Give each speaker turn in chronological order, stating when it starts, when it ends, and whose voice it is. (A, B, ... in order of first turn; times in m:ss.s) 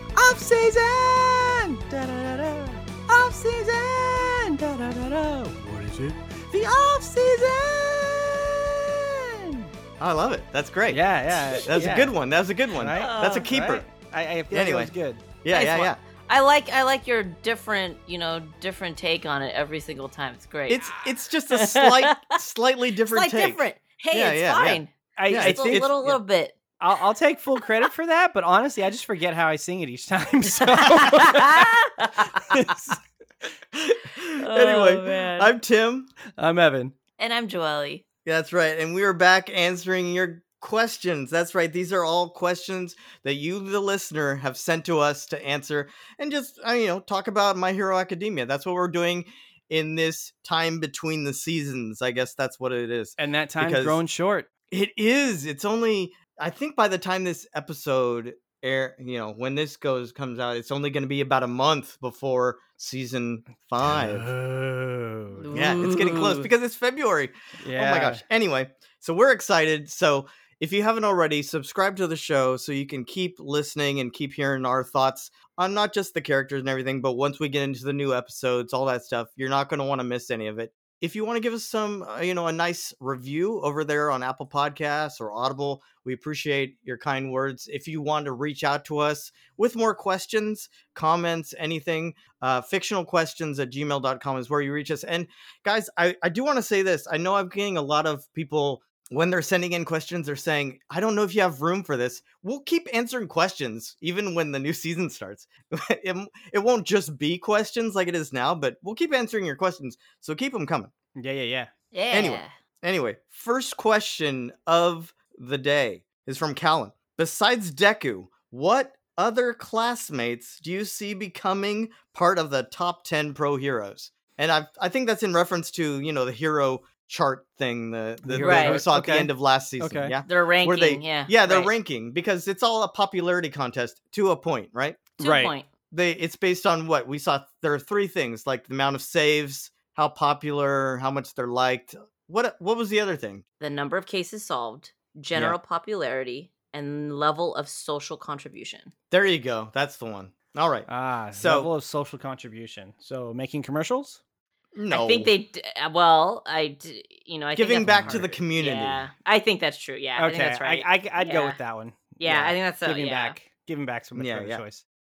0:00.1-0:09.7 A
0:10.0-0:11.0 B
0:10.9-0:12.1 A
0:11.6-0:13.8 B
0:12.7-0:15.2 A
0:13.0-0:13.5 C
0:14.5-0:14.9 B
0:15.4-0:16.0 B
0:15.5-0:22.3 C
0:20.7-0:25.9 B
0:23.1-0:26.7 C
0:25.2-0:26.2 A
0:26.8-0:31.7 A
0:30.4-0:32.5 C
0:32.4-0:33.0 A
0:33.7-0:36.1 B
0:34.4-0:35.5 C
0:36.4-0:36.9 A
0:37.2-0:38.0 C
0:38.2-0:54.0 B
0:53.2-0:54.5 A
0:54.7-1:04.3 B
1:03.8-1:05.4 A
1:05.4-1:06.5 C
1:05.5-1:50.9 B
1:07.6-1:08.2 A
1:51.2-1:51.7 A
1:51.9-1:52.5 C
1:52.1-2:15.1 B
2:08.2-2:10.2 A
2:08.4-2:08.8 C
2:10.2-2:11.7 C
2:15.2-2:15.7 C
2:15.2-2:15.5 A
2:15.9-2:23.4 B
2:23.6-2:28.9 C
2:29.1-2:31.7 B
2:30.9-2:34.2 A
2:34.7-2:35.3 B
2:34.9-2:41.6 C
2:37.6-2:39.1 B
2:40.2-2:44.8 A
2:42.2-2:43.3 C
2:44.1-2:44.6 B